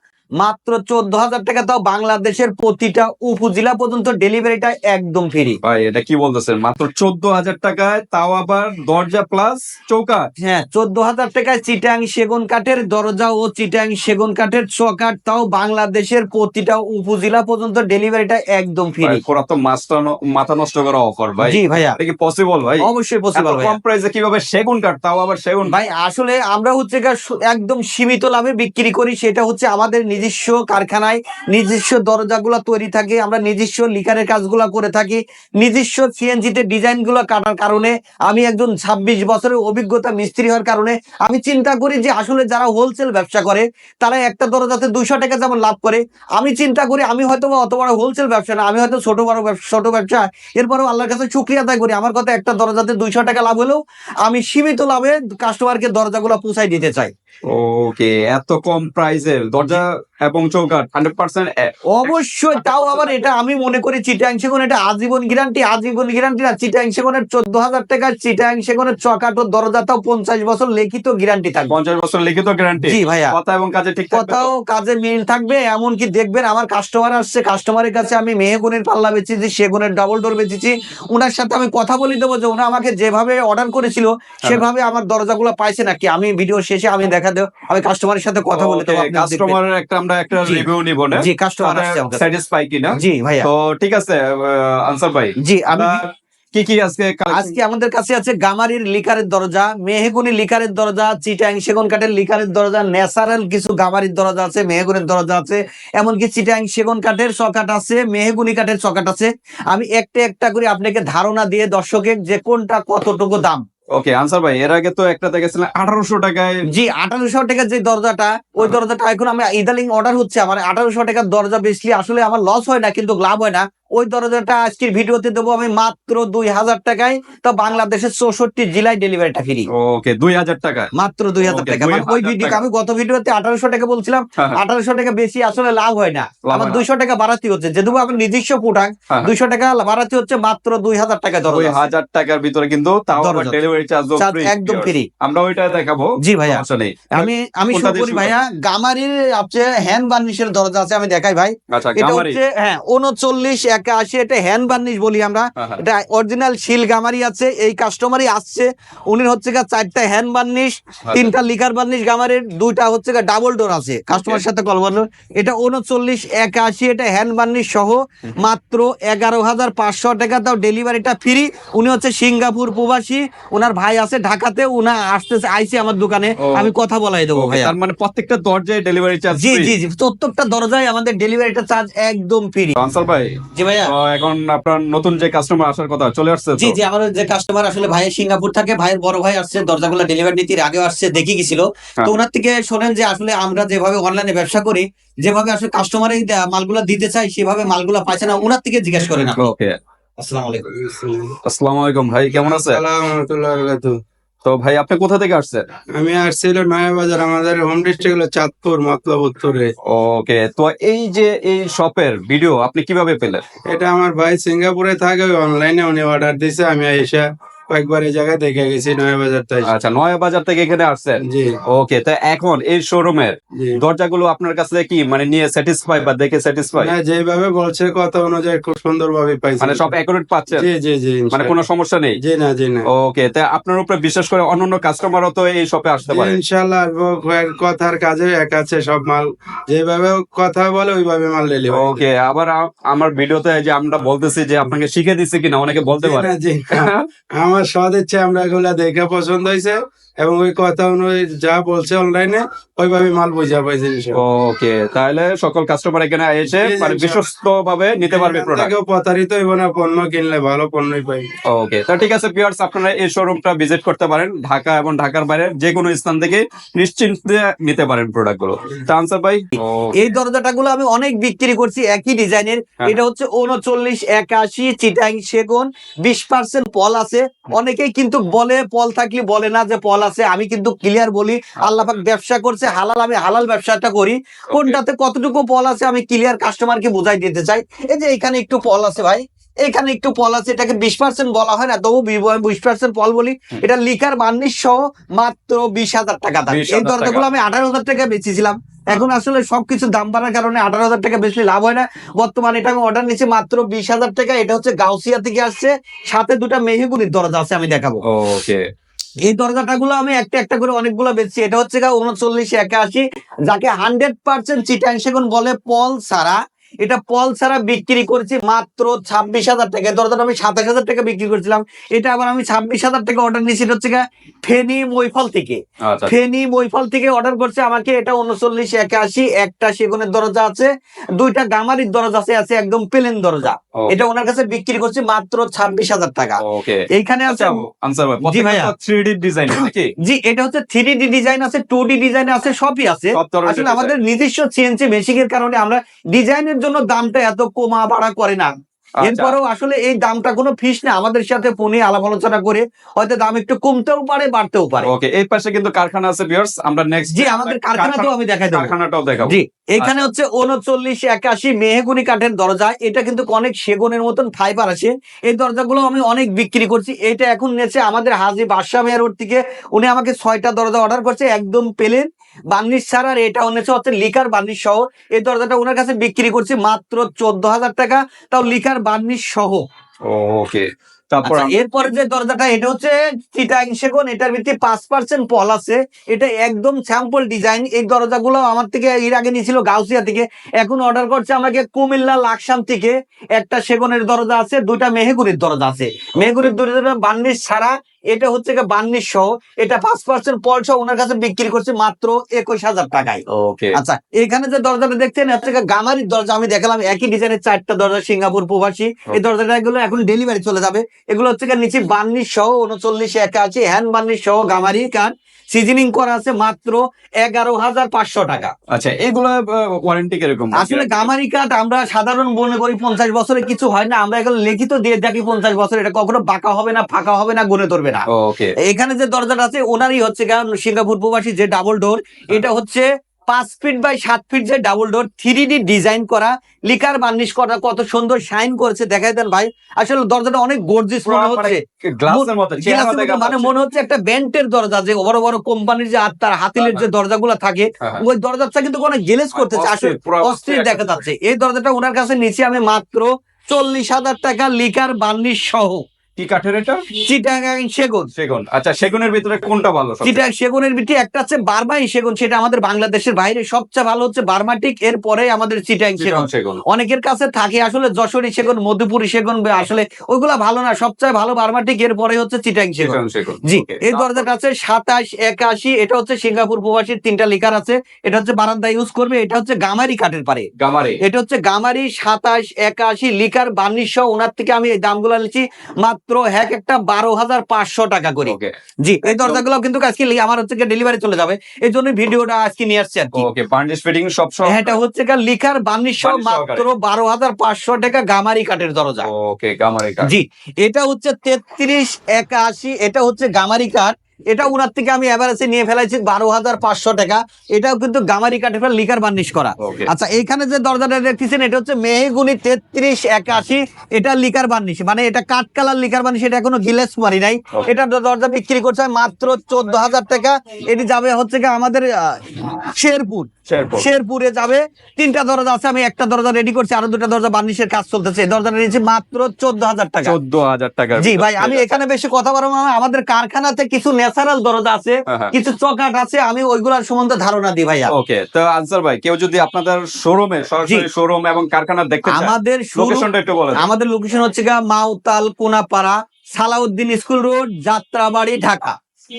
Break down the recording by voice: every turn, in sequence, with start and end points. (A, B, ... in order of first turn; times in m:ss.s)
0:00.4-0:05.6 A
0:05.6-0:10.3 B
0:10.4-0:19.2 A
0:19.0-0:25.7 B
0:21.4-0:22.0 A
0:22.8-0:23.8 A
0:25.7-0:57.1 A
0:57.5-1:03.2 B
1:01.9-1:11.7 A
1:11.7-1:14.5 B
1:12.8-1:13.3 A
1:14.1-1:29.6 A
1:28.5-1:37.6 B
1:30.4-1:32.2 A
1:32.9-1:33.5 A
1:35.4-1:36.0 A
1:37.3-1:53.6 A
1:53.9-1:56.6 B
1:56.7-2:09.7 A
2:09.7-2:12.6 B
2:10.9-2:21.9 A
2:16.4-2:16.8 B
2:21.5-2:28.3 B
2:23.2-2:23.6 A
2:24.2-2:25.1 A
2:26.2-2:57.7 A
2:31.7-2:32.4 B
2:35.6-2:35.8 B
2:41.1-2:41.3 B
2:44.1-2:44.4 B
2:56.4-2:56.7 B
2:57.4-2:59.7 B
2:59.4-3:02.8 A
3:02.8-3:06.8 B
3:03.5-3:03.9 A
3:06.6-3:19.5 A
3:19.4-3:19.8 B
3:20.2-3:20.7 A
3:20.7-3:21.4 C
3:21.5-3:22.8 B
3:22.3-3:24.0 C
3:24.4-3:25.6 B
3:25.9-3:29.7 C
3:29.9-3:33.4 B
3:33.7-3:39.7 C
3:39.6-3:47.0 B
3:41.2-3:41.6 C
3:43.6-3:43.8 C
3:46.8-3:49.9 C
3:49.6-3:50.7 B
3:50.5-3:51.6 C
3:51.3-3:52.2 B
3:52.2-3:52.9 C
3:52.9-3:56.4 B
3:56.1-4:02.0 C
4:01.7-4:07.1 B
4:06.0-4:14.2 C
4:14.2-4:18.7 B
4:16.6-4:17.2 C
4:18.1-4:21.3 C
4:21.5-4:30.2 B
4:30.0-5:08.0 A
4:44.5-4:44.8 B
4:56.5-4:57.3 B
5:08.1-5:08.6 B
5:09.3-5:37.6 A
5:25.8-5:26.1 B
5:36.4-5:39.9 B
5:38.3-5:38.7 A
5:40.0-5:48.5 A
5:43.1-5:43.9 B
5:49.0-5:49.4 B
5:49.0-5:54.9 A
5:54.8-6:00.0 B
5:57.1-5:58.7 A
5:59.3-6:19.6 A
6:20.1-6:21.6 B
6:21.2-6:43.2 A
6:43.3-6:43.8 B
6:43.7-6:58.5 A
6:58.7-7:01.1 B
7:00.6-7:08.0 A
7:08.1-7:08.5 B
7:08.6-7:35.8 A
7:21.0-7:23.5 B
7:26.6-7:26.8 B
7:29.4-7:31.0 B
7:36.2-7:36.8 B
7:37.0-7:38.1 A
7:38.1-7:40.2 B
7:40.0-8:00.5 A
7:46.0-7:46.6 B
7:52.8-7:54.3 B
8:00.6-8:01.0 B
8:01.0-8:13.2 A
8:08.3-8:08.5 B
8:09.0-8:09.4 B
8:13.2-8:14.8 B
8:14.4-8:19.1 A
8:16.0-8:16.6 B
8:19.0-8:20.1 B
8:20.0-8:50.2 A
8:29.6-8:29.9 B
8:43.5-8:43.9 B
8:50.0-8:51.8 B
8:51.0-8:57.9 A
8:55.1-8:55.3 B
8:57.9-9:03.6 B
9:02.1-9:08.8 A